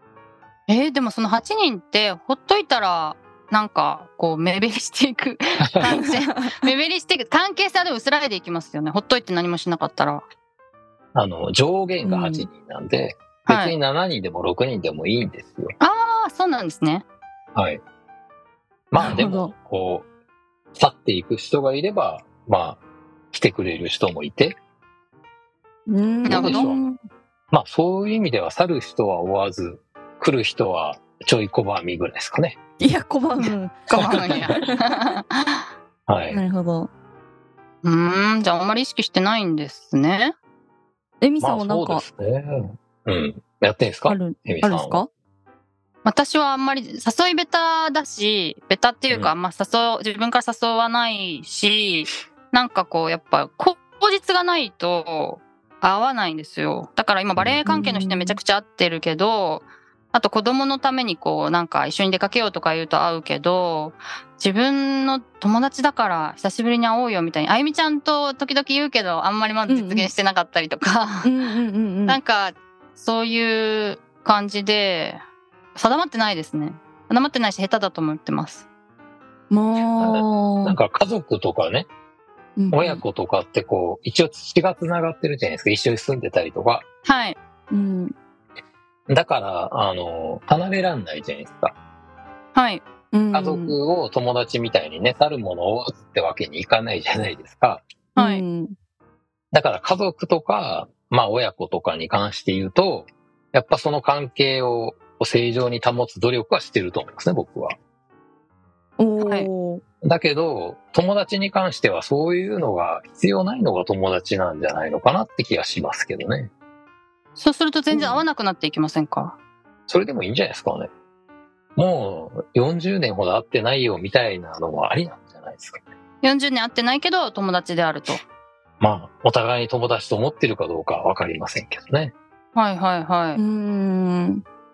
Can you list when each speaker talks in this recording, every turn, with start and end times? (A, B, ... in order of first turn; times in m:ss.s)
0:00.7-0:10.2 A
0:05.9-0:06.6 B
0:11.1-0:15.7 C
0:12.0-0:12.5 B
0:13.4-0:13.7 A
0:15.8-0:17.0 A
0:17.5-0:17.8 C
0:18.9-0:20.1 C
0:19.0-0:19.5 B
0:20.7-0:22.8 C
0:23.3-0:24.6 C
0:25.9-0:27.0 B
0:26.2-0:26.6 A
0:26.3-0:26.8 C
0:27.5-0:32.6 C
0:32.8-0:34.9 B
0:33.4-0:35.6 A
0:36.1-0:36.4 C
0:36.3-0:36.9 B
0:37.8-0:40.3 A
0:41.2-0:42.0 B
0:41.4-0:45.0 C
0:44.1-0:45.1 B
0:46.0-1:11.3 A
0:57.6-0:58.4 B
1:09.7-1:10.1 B
1:11.2-1:12.2 B
1:12.1-1:15.2 A
1:15.8-1:18.6 A
1:19.5-1:20.8 B
1:19.8-1:21.9 C
1:22.6-1:23.0 B
1:22.7-1:26.8 C
1:27.0-1:27.4 A
1:27.7-1:28.1 B
1:29.1-1:31.7 C
1:32.5-1:32.8 A
1:33.1-1:33.7 B
1:33.3-1:37.8 C
1:38.2-1:38.4 A
1:38.2-1:38.7 B
1:39.5-1:47.7 C
1:49.0-1:49.8 B
1:49.2-1:49.5 A
1:50.0-1:56.5 C
1:57.4-1:59.4 A
1:57.9-1:58.2 B
1:59.9-2:00.9 C
2:01.8-2:05.8 C
2:06.2-2:08.2 A
2:08.8-2:12.1 C
2:12.5-2:13.4 A
2:13.4-2:14.4 B